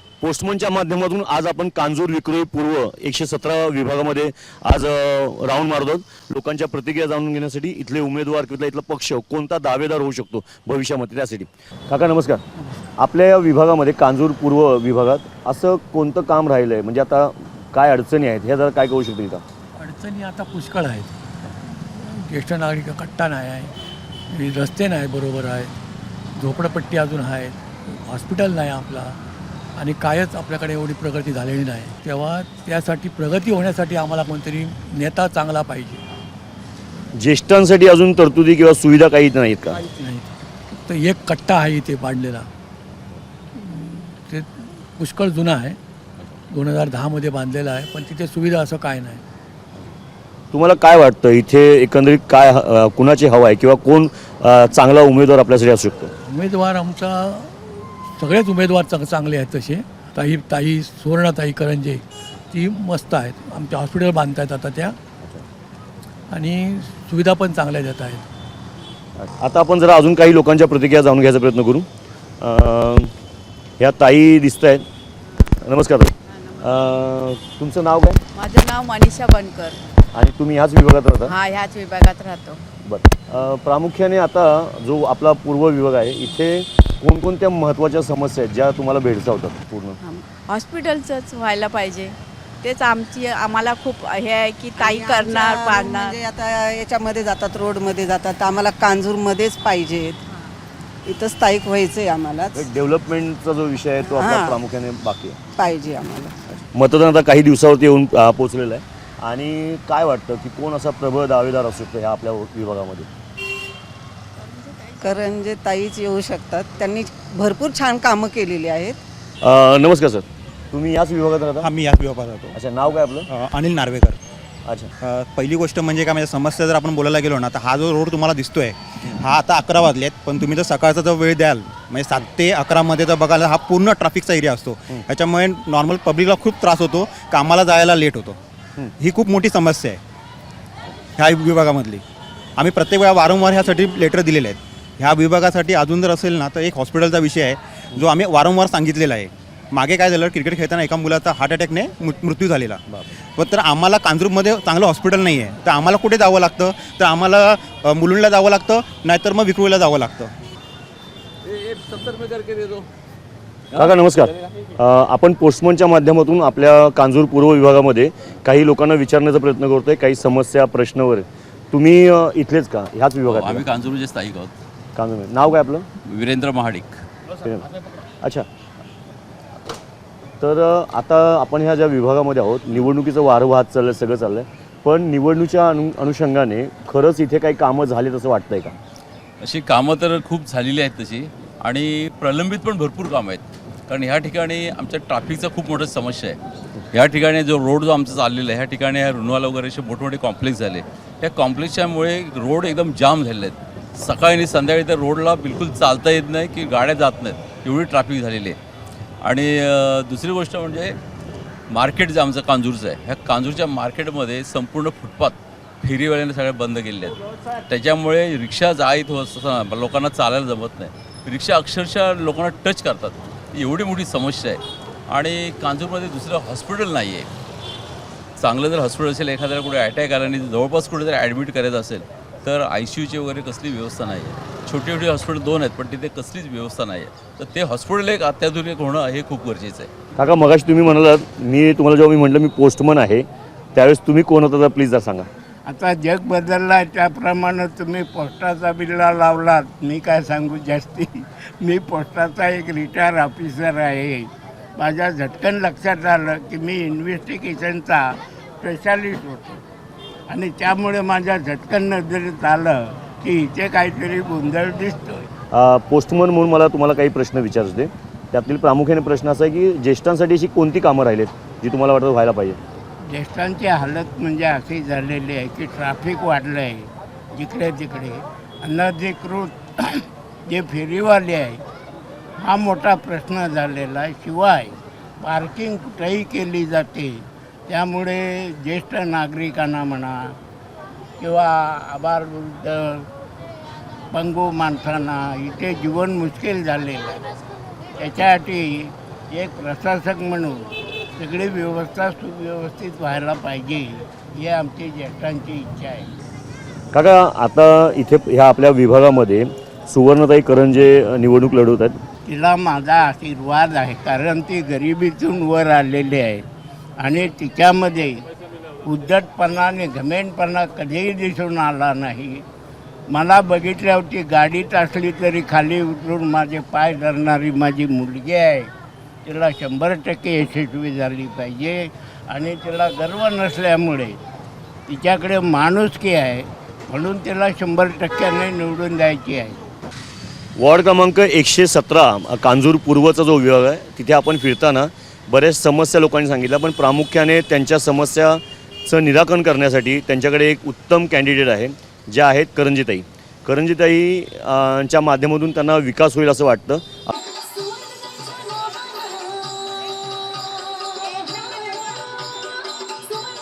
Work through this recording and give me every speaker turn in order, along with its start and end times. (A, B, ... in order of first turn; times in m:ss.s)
0:00.2-0:12.4 A
0:13.0-0:19.4 A
0:19.8-0:23.7 B
0:24.3-0:25.7 B
0:26.4-0:29.2 B
0:29.8-0:36.0 B
0:37.1-0:39.9 A
0:39.8-0:42.5 B
0:43.6-0:45.8 B
0:46.5-0:49.2 B
0:50.5-0:56.1 A
0:56.3-1:05.0 B
1:06.3-1:08.2 B
1:09.2-1:11.9 A
1:12.4-1:13.1 A
1:13.8-1:14.9 A
1:15.5-1:18.2 A
1:18.4-1:19.8 C
1:20.1-1:21.4 A
1:21.3-1:22.6 C
1:22.8-1:30.0 A
1:30.0-1:36.2 C
1:34.8-1:40.2 D
1:41.1-1:42.7 D
1:42.6-1:45.4 A
1:44.0-1:44.6 D
1:45.6-1:46.4 D
1:46.5-1:53.1 A
1:54.4-1:55.0 C
1:55.0-1:59.0 D
1:59.4-2:01.7 A
2:01.6-2:02.6 E
2:02.6-2:03.3 A
2:03.3-2:04.2 E
2:04.6-2:04.9 A
2:05.0-2:18.4 E
2:19.0-2:20.0 E
2:21.2-2:22.0 E
2:22.6-2:32.8 E
2:33.4-2:40.3 E
2:41.5-2:42.8 F
2:43.8-2:53.7 A
2:53.3-2:54.6 F
2:55.0-2:55.9 A
2:56.0-2:57.0 F
2:58.2-2:58.5 A
3:00.4-3:08.8 A
3:09.4-3:16.4 F
3:16.9-3:28.6 F
3:29.2-3:31.0 F
3:31.7-3:37.2 F
3:37.7-3:47.3 F
3:48.4-3:59.9 F
4:00.2-4:05.3 A
4:05.7-4:18.0 G
4:18.6-4:19.6 G
4:20.3-4:25.3 G
4:25.5-4:32.6 A
4:33.1-4:41.6 G
4:42.4-4:50.2 G
4:51.2-4:53.1 G
4:54.1-4:57.2 G
4:58.0-5:06.1 G
5:06.9-5:12.0 A
5:12.3-5:16.4 G
5:17.0-5:18.2 G
5:18.8-5:22.4 G
5:23.1-5:28.7 G
5:29.2-5:34.2 G
5:34.9-5:39.6 G
5:40.6-5:57.1 A